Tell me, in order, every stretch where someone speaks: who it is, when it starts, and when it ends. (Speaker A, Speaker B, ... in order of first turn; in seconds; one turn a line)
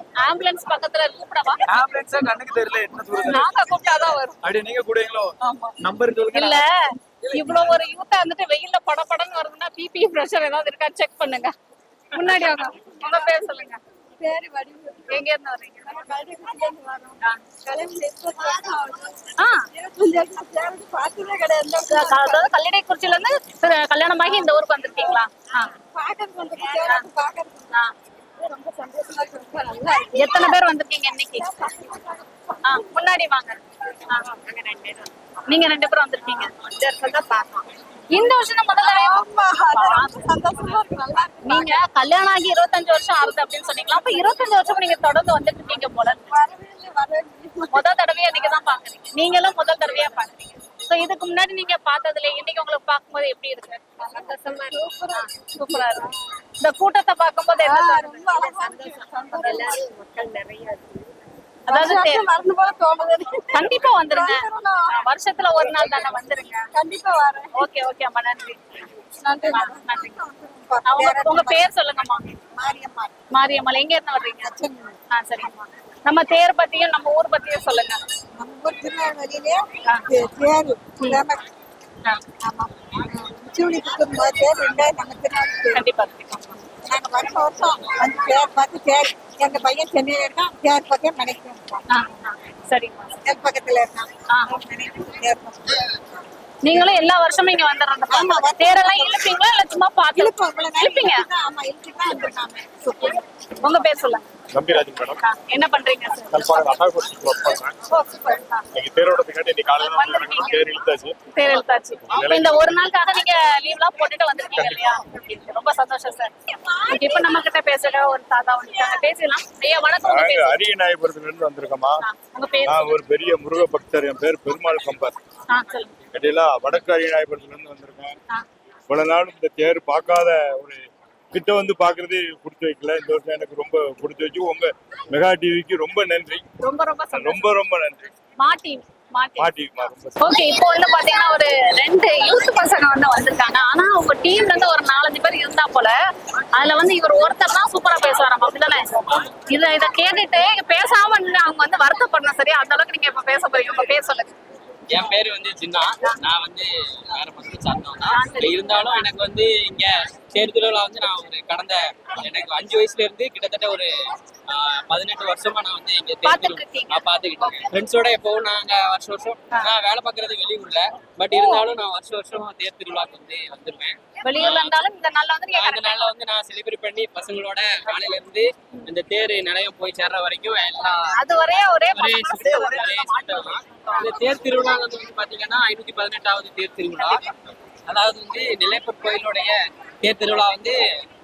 Speaker A: 0.2-1.6
Speaker B: 1.7-3.5
Speaker A: 3.2-4.4
Speaker B: 4.4-6.6
Speaker A: 5.4-5.7
Speaker A: 6.3-11.5
Speaker B: 7.2-7.7
Speaker A: 12.1-13.8
Speaker C: 12.2-13.5
Speaker C: 14.2-15.2
Speaker A: 15.1-15.9
Speaker C: 15.9-19.2
Speaker A: 19.4-19.6
Speaker C: 19.7-22.5
Speaker A: 21.9-25.7
Speaker C: 25.9-27.7
Speaker C: 28.4-30.6
Speaker A: 30.1-31.5
Speaker C: 31.3-32.8
Speaker A: 32.6-34.3
Speaker C: 34.4-35.0
Speaker A: 35.5-36.5
Speaker C: 36.6-37.6
Speaker A: 38.1-39.2
Speaker C: 38.8-41.8
Speaker A: 39.7-40.3
Speaker A: 41.4-46.3
Speaker C: 46.3-47.9
Speaker A: 47.7-53.8
Speaker C: 54.0-56.2
Speaker A: 55.1-59.7
Speaker C: 57.6-61.1
Speaker A: 61.7-62.3
Speaker C: 61.7-65.0
Speaker A: 63.5-66.7
Speaker C: 65.6-66.1
Speaker C: 66.7-67.6
Speaker A: 67.5-68.6
Speaker C: 69.2-71.7
Speaker A: 69.5-70.2
Speaker A: 70.8-72.2
Speaker C: 72.5-73.2
Speaker A: 73.3-74.5
Speaker C: 74.4-75.0
Speaker A: 75.1-78.0
Speaker C: 78.4-81.5
Speaker C: 82.4-85.8
Speaker A: 85.7-86.6
Speaker C: 86.9-91.8
Speaker A: 91.9-93.2
Speaker C: 93.2-95.8
Speaker A: 96.6-101.2
Speaker C: 98.1-99.3
Speaker C: 100.2-102.7
Speaker A: 102.8-104.3
Speaker D: 104.5-105.2
Speaker A: 105.2-106.8
Speaker D: 106.3-107.7
Speaker C: 107.9-108.6
Speaker D: 108.7-111.2
Speaker A: 110.0-110.6
Speaker A: 111.3-116.3
Speaker D: 112.1-112.6
Speaker A: 116.9-120.6
Speaker D: 120.0-122.0
Speaker A: 122.0-123.0
Speaker D: 122.7-125.2
Speaker A: 125.5-125.9
Speaker D: 126.1-128.2
Speaker D: 128.9-130.8
Speaker D: 131.3-136.4
Speaker A: 136.6-137.5
Speaker D: 137.1-138.0
Speaker A: 138.4-139.5
Speaker D: 139.4-140.4
Speaker A: 140.2-145.9
Speaker A: 146.6-154.3
Speaker E: 154.9-163.9
Speaker A: 158.1-159.1
Speaker E: 164.5-174.7
Speaker A: 166.2-167.7
Speaker A: 171.3-171.7
Speaker A: 174.2-176.1
Speaker E: 175.5-181.1
Speaker A: 181.1-184.1
Speaker E: 181.9-187.3
Speaker E: 187.9-190.8